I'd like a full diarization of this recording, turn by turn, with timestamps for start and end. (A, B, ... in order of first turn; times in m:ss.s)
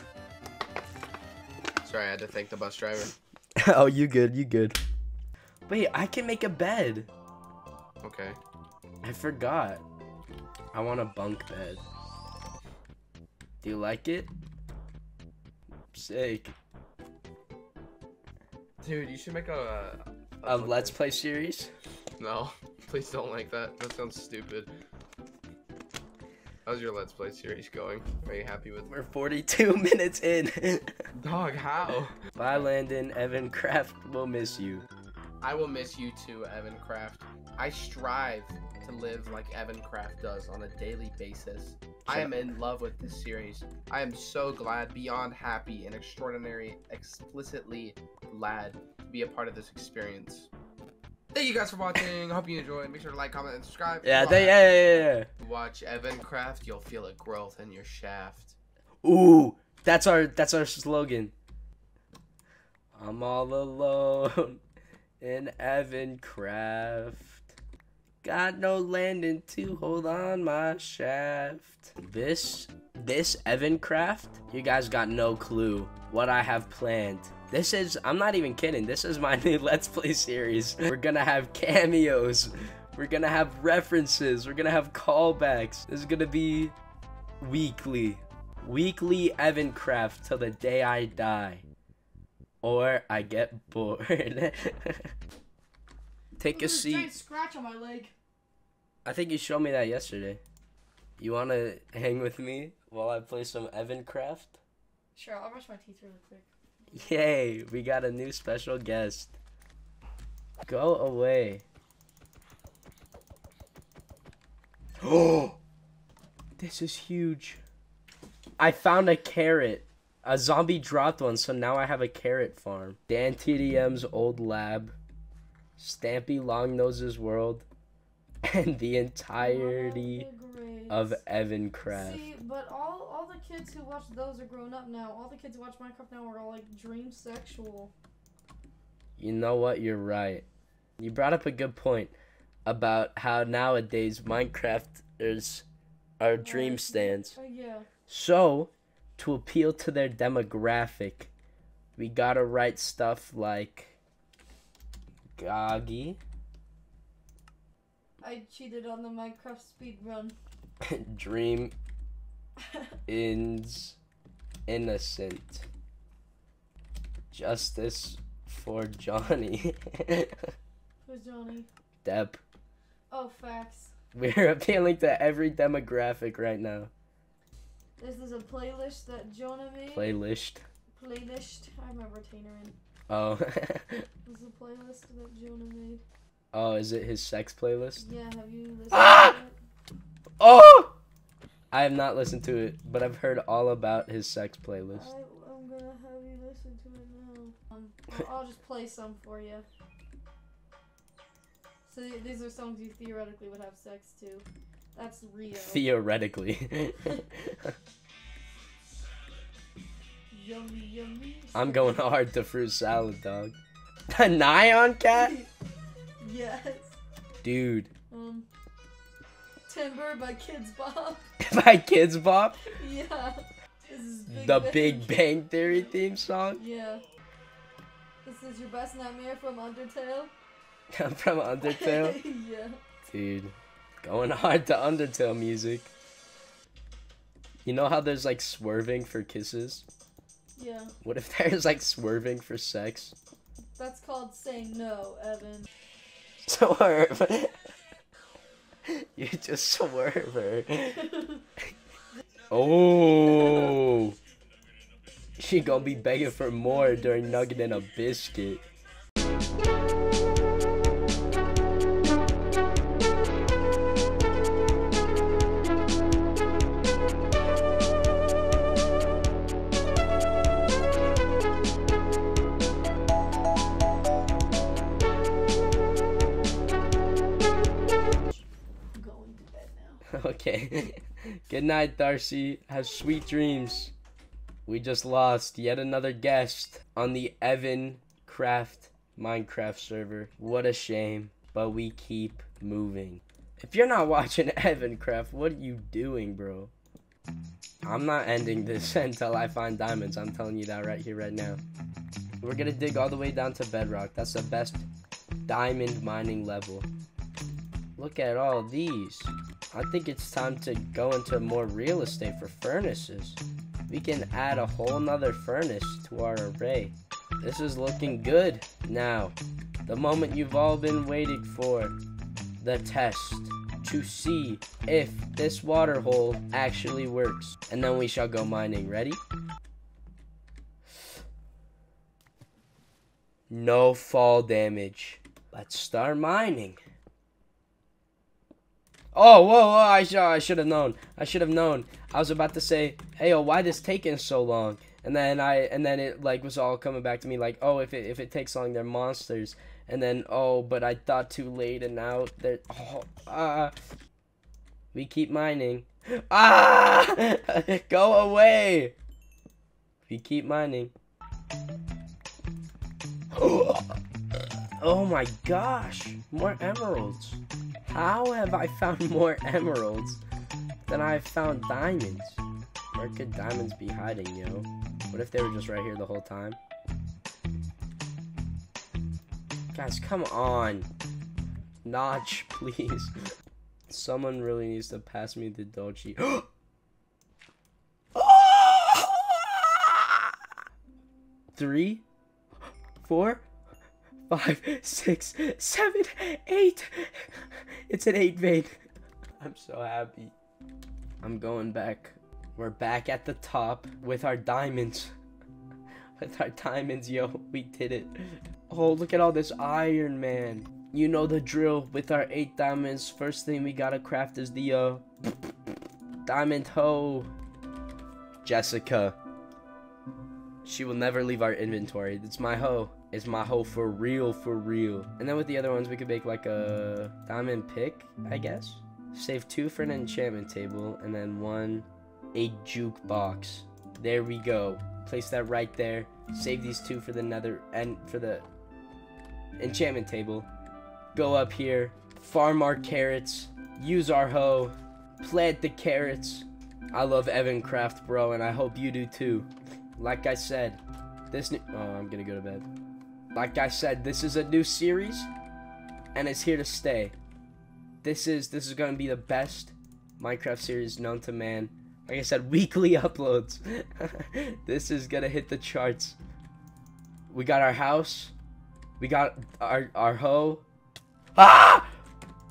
0:01.8-0:03.1 A
0:03.6-0:04.8 B
0:05.7-0:07.1 B
0:08.0-0:08.4 A
0:09.0-0:09.8 B
0:10.7-0:11.8 B
0:13.6-0:14.3 B
0:15.9-0:16.5 B
0:18.8-0:21.0 A
0:20.4-0:21.7 B
0:22.2-0:24.7 A
0:26.6-0:28.9 A
0:28.9-0:30.9 B
0:31.2-0:32.6 A
0:32.3-0:34.8 B
0:35.4-0:50.5 A
0:42.0-0:42.3 B
0:51.3-0:54.8 A
0:54.0-0:55.3 B
0:55.4-0:58.6 A
0:59.0-1:01.3 B
1:02.9-1:04.6 B
1:05.2-1:07.5 B
1:08.2-1:26.7 B
1:27.4-1:31.6 B
1:32.6-1:35.1 B
1:36.4-1:37.1 B
1:36.4-1:38.1 C
1:39.0-1:40.4 B
1:41.2-1:44.6 B
1:45.2-1:47.1 C
1:46.9-1:49.4 B
1:50.6-1:51.6 B
1:55.0-1:55.6 B
1:56.6-1:57.6 B
1:58.6-2:04.9 B
2:05.8-2:07.6 B
2:08.4-2:10.3 B
2:09.4-2:11.2 C
2:10.9-2:12.3 B
2:11.9-2:17.9 C
2:19.2-2:20.4 B
2:21.0-2:22.1 B
2:22.6-2:25.6 B
2:26.2-2:27.3 B
2:26.4-2:27.9 C
2:28.1-2:31.3 B
2:32.0-2:34.0 B
2:35.4-2:36.2 B
2:38.2-2:40.4 C
2:40.9-2:41.7 B
2:43.1-2:44.0 B
2:44.7-2:45.7 B
2:47.3-2:50.3 B
2:51.0-2:51.7 C
2:52.0-2:52.4 B
2:53.1-2:53.9 C
2:54.1-2:56.9 B
2:58.0-3:00.1 C
2:59.9-3:00.6 B
3:01.0-3:02.8 C
3:03.1-3:04.0 B
3:04.2-3:06.0 C
3:06.5-3:08.0 B
3:08.0-3:09.6 C
3:08.9-3:09.4 B
3:10.4-3:10.9 B
3:11.7-3:15.1 B
3:14.9-3:19.6 C
3:21.8-3:25.8 C
3:25.5-3:27.7 B
3:30.3-3:32.0 C
3:31.5-3:33.6 B
3:34.1-3:35.4 B
3:35.1-3:35.5 C
3:36.2-3:37.0 C
3:37.4-3:37.9 B
3:38.1-3:38.5 C
3:39.7-3:41.2 C
3:41.4-3:42.7 B
3:42.6-3:46.0 C
3:44.3-3:46.6 B
3:46.5-3:47.0 C
3:48.2-3:50.3 C
3:50.9-3:52.2 B
3:51.6-3:52.8 C
3:53.0-3:55.9 B
3:57.6-3:59.8 B
4:00.6-4:00.9 C
4:01.0-4:03.1 B
4:03.8-4:05.7 C
4:06.4-4:07.5 B
4:08.9-4:11.1 B
4:12.5-4:14.2 B
4:15.4-4:18.6 B
4:15.6-4:17.8 C
4:38.9-4:40.0 C
4:40.1-4:43.9 B
4:44.6-4:56.7 B
4:57.8-5:01.6 B
5:02.4-5:04.8 B
5:05.4-5:06.9 B
5:08.0-5:19.3 B
5:19.8-5:22.0 B
5:22.6-5:29.2 B
5:33.5-5:36.8 B
5:39.1-5:53.7 B
5:54.9-5:58.9 B
6:00.1-6:00.9 B
6:03.3-6:04.0 B
6:04.8-6:10.2 B
6:10.8-6:12.4 B
6:12.9-6:16.6 B
6:19.7-6:20.9 B
6:21.8-6:23.1 B
6:23.9-6:26.5 B
6:28.1-6:30.3 B
6:31.5-6:32.0 B
6:33.0-6:33.4 B
6:34.3-6:38.8 B
6:39.4-6:40.3 B
6:41.2-6:45.1 B
6:46.2-6:55.0 B
6:56.2-6:57.3 B
6:58.4-6:59.2 B
7:00.6-7:18.4 B
7:19.6-7:20.5 B
7:21.1-7:32.6 B
7:33.3-7:35.3 B
7:36.1-7:37.1 B
7:38.0-7:46.2 B
7:47.3-7:48.3 B
7:49.0-7:50.6 B
7:51.4-7:51.9 B